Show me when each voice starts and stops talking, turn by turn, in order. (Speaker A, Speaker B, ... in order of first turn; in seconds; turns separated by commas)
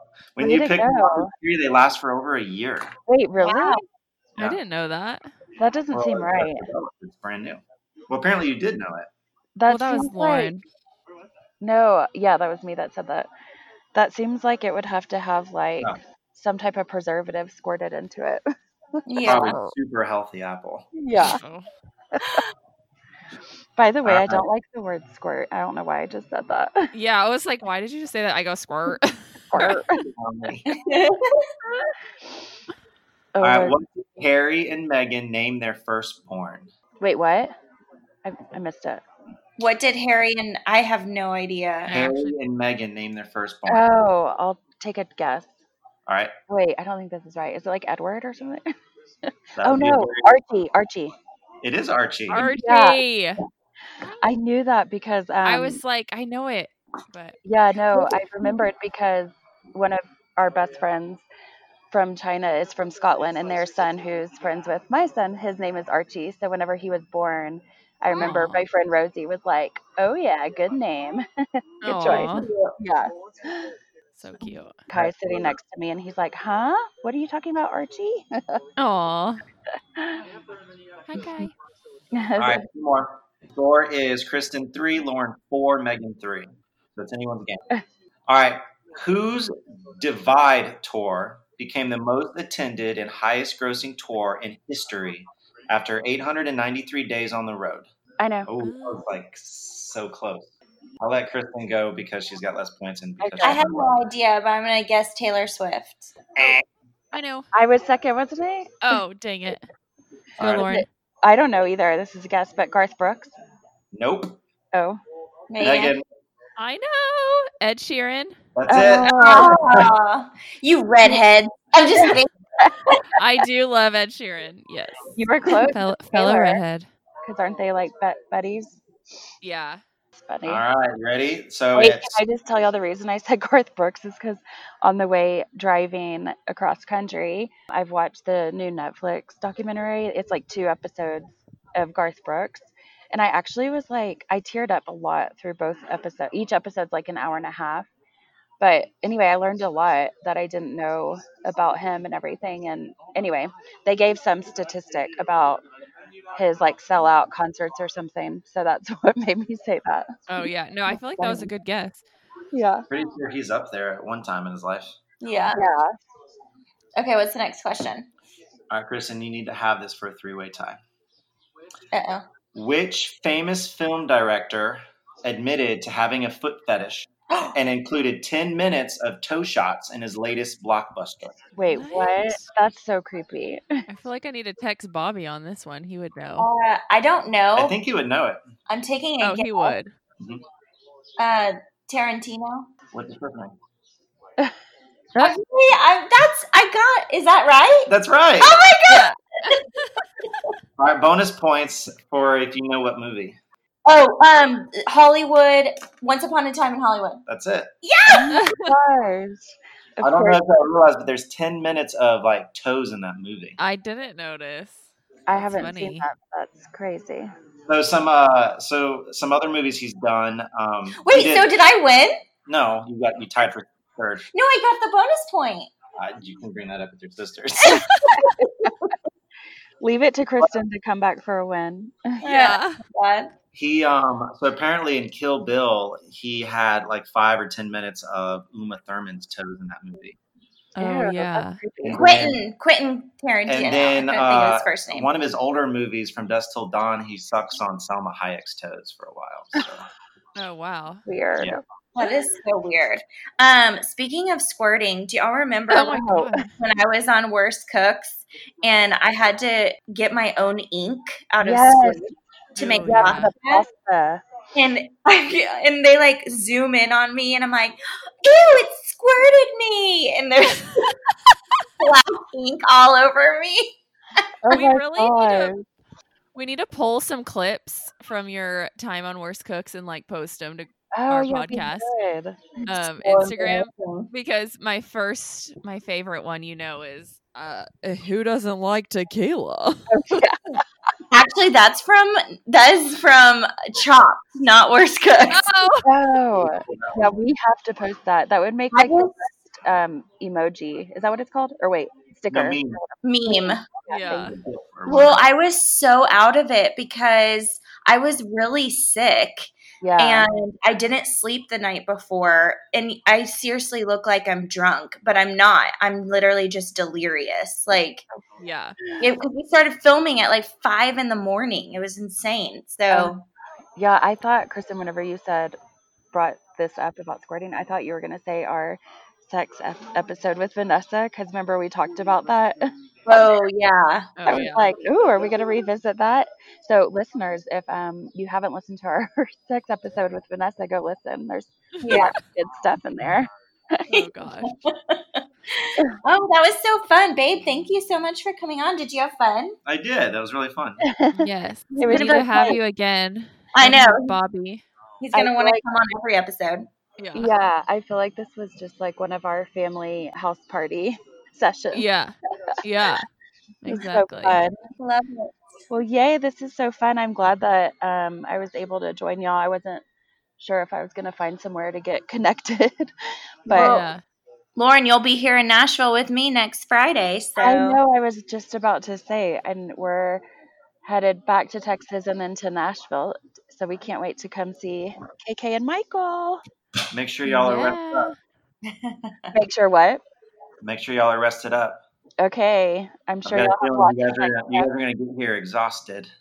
Speaker A: 0.4-2.9, Speaker B: 0.4-1.3, Speaker B: 3.1-3.8, Speaker C: 3.4-3.8, Speaker D: 4.4-5.3, Speaker B: 5.6-6.7, Speaker A: 5.9-9.1, Speaker B: 9.6-10.5, Speaker D: 9.7-10.6, Speaker B: 11.6-13.3, Speaker B: 13.9-18.4, Speaker C: 19.1-19.6, Speaker A: 19.2-20.9, Speaker D: 19.2-19.7, Speaker B: 20.9-21.4, Speaker D: 21.2-21.7, Speaker B: 22.1-22.4, Speaker B: 23.8-26.9, Speaker A: 24.0-24.4, Speaker D: 26.9-29.9, Speaker B: 29.5-30.1, Speaker A: 30.1-30.7, Speaker C: 30.7-31.5, Speaker B: 33.4-33.8, Speaker A: 33.4-36.7, Speaker B: 37.0-37.5, Speaker B: 38.2-39.0, Speaker C: 39.6-41.9, Speaker D: 41.9-42.3, Speaker A: 41.9-43.9, Speaker B: 43.7-45.5, Speaker A: 46.1-46.3, Speaker B: 46.5-48.7, Speaker A: 49.6-50.3, Speaker B: 49.6-51.1, Speaker A: 51.6-52.6, Speaker D: 52.3-53.4, Speaker B: 52.4-53.0, Speaker B: 54.2-55.8, Speaker D: 55.5-57.4, Speaker B: 57.5-61.2, Speaker B: 61.9-71.2, Speaker D: 68.2-68.6, Speaker D: 71.8-72.5, Speaker B: 71.8-73.7, Speaker C: 72.1-72.8, Speaker D: 74.2-74.8, Speaker B: 74.9-78.6, Speaker A: 74.9-75.5, Speaker D: 78.8-79.4, Speaker B: 80.0-80.2, Speaker D: 81.1-81.5, Speaker B: 82.1-82.6, Speaker A: 82.4-87.6, Speaker A: 88.3-97.9, Speaker B: 98.2-98.5, Speaker A: 98.5-103.9, Speaker D: 98.6-99.0, Speaker B: 103.2-103.6, Speaker C: 103.4-106.1, Speaker A: 106.4-106.6, Speaker D: 107.1-107.5, Speaker B: 107.5-109.0, Speaker D: 108.8-109.6, Speaker A: 110.4-110.7, Speaker D: 110.4-110.9, Speaker B: 110.6-113.3, Speaker A: 113.9-114.4, Speaker B: 114.7-115.0, Speaker C: 115.5-115.9, Speaker A: 115.6-116.0, Speaker D: 116.6-118.4, Speaker A: 118.5-119.9, Speaker B: 118.7-119.6, Speaker C: 119.0-122.3, Speaker D: 123.2-126.9, Speaker B: 125.2-126.6, Speaker B: 127.2-128.8, Speaker D: 129.4-129.8, Speaker B: 130.1-130.6, Speaker A: 130.4-132.2, Speaker B: 131.8-147.9, Speaker B: 148.6-155.6, Speaker B: 156.4-160.1, Speaker D: 160.3-162.0, Speaker B: 160.9-161.5, Speaker B: 162.5-162.8, Speaker A: 162.9-164.9, Speaker C: 165.2-165.6, Speaker B: 165.5-165.9, Speaker C: 167.0-168.1, Speaker A: 168.7-170.8, Speaker C: 171.9-172.2, Speaker A: 172.5-181.4, Speaker C: 177.3-177.6, Speaker B: 181.6-183.8, Speaker D: 181.7-182.4, Speaker D: 183.9-186.5, Speaker C: 186.4-187.8, Speaker A: 187.6-188.4, Speaker C: 188.7-189.8, Speaker D: 189.2-189.9, Speaker C: 191.2-192.7, Speaker A: 192.9-193.5, Speaker C: 195.2-199.6, Speaker A: 197.9-198.6, Speaker D: 198.9-199.9, Speaker A: 200.8-203.4, Speaker C: 203.9-207.2, Speaker A: 207.3-207.7, Speaker C: 207.8-208.3, Speaker B: 208.1-210.4, Speaker D: 208.3-208.7, Speaker A: 210.0-213.6, Speaker D: 213.6-216.0, Speaker B: 215.3-217.3, Speaker A: 217.7-221.5, Speaker C: 221.0-222.2, Speaker A: 222.5-224.3, Speaker C: 224.3-225.7, Speaker A: 226.0-227.9, Speaker D: 227.9-228.2, Speaker C: 228.2-228.9, Speaker B: 228.4-228.7, Speaker B: 229.8-232.2, Speaker C: 232.2-233.3, Speaker D: 232.2-232.8, Speaker A: 233.5-240.2, Speaker D: 240.8-241.6, Speaker B: 240.8-242.0, Speaker A: 241.8-242.4, Speaker C: 242.0-245.1, Speaker A: 243.5-249.9, Speaker D: 250.4-251.0, Speaker B: 251.1-251.6, Speaker C: 252.0-256.0, Speaker B: 255.7-256.4, Speaker D: 255.7-256.5, Speaker C: 256.6-263.6, Speaker B: 261.4-262.1, Speaker D: 262.6-263.3, Speaker B: 262.8-264.2, Speaker C: 264.5-270.9, Speaker C: 271.8-273.7, Speaker B: 274.4-275.6, Speaker D: 274.5-275.5, Speaker D: 276.3-281.9, Speaker B: 280.9-282.6, Speaker D: 282.7-289.9, Speaker C: 282.9-284.1, Speaker B: 289.9-290.6, Speaker C: 291.1-295.5, Speaker D: 295.3-295.9, Speaker B: 295.8-304.3, Speaker A: 296.4-297.2, Speaker C: 298.7-299.2, Speaker A: 302.3-302.8, Speaker C: 303.0-303.6, Speaker D: 303.9-304.3, Speaker A: 304.2-305.3, Speaker C: 304.9-318.0, Speaker B: 309.8-310.3, Speaker D: 318.4-318.8, Speaker C: 319.0-323.2, Speaker B: 323.8-325.6, Speaker B: 326.1-332.7, Speaker C: 333.1-334.1, Speaker D: 334.2-334.7, Speaker B: 334.2-343.9, Speaker D: 341.8-342.0, Speaker C: 341.8-342.2, Speaker D: 343.9-344.5, Speaker C: 344.4-349.6, Speaker A: 349.7-350.8, Speaker B: 350.8-351.3, Speaker D: 351.1-354.6, Speaker C: 351.7-352.6, Speaker B: 351.8-352.6, Speaker C: 353.5-354.2, Speaker C: 355.0-356.7, Speaker B: 355.1-355.6, Speaker D: 357.0-357.3, Speaker B: 357.1-361.8, Speaker D: 361.7-363.1, Speaker D: 363.6-364.4, Speaker B: 363.7-364.6, Speaker C: 364.8-365.3, Speaker B: 365.7-369.8, Speaker B: 370.4-372.9, Speaker B: 373.4-373.8, Speaker C: 373.5-373.9, Speaker D: 373.5-374.0, Speaker C: 374.6-377.8, Speaker B: 377.4-380.2, Speaker B: 380.8-386.4, Speaker A: 386.9-388.1, Speaker D: 387.2-388.2, Speaker C: 388.7-389.2, Speaker B: 389.3-390.0, Speaker A: 390.6-391.8, Speaker B: 392.2-394.7, Speaker A: 393.2-396.1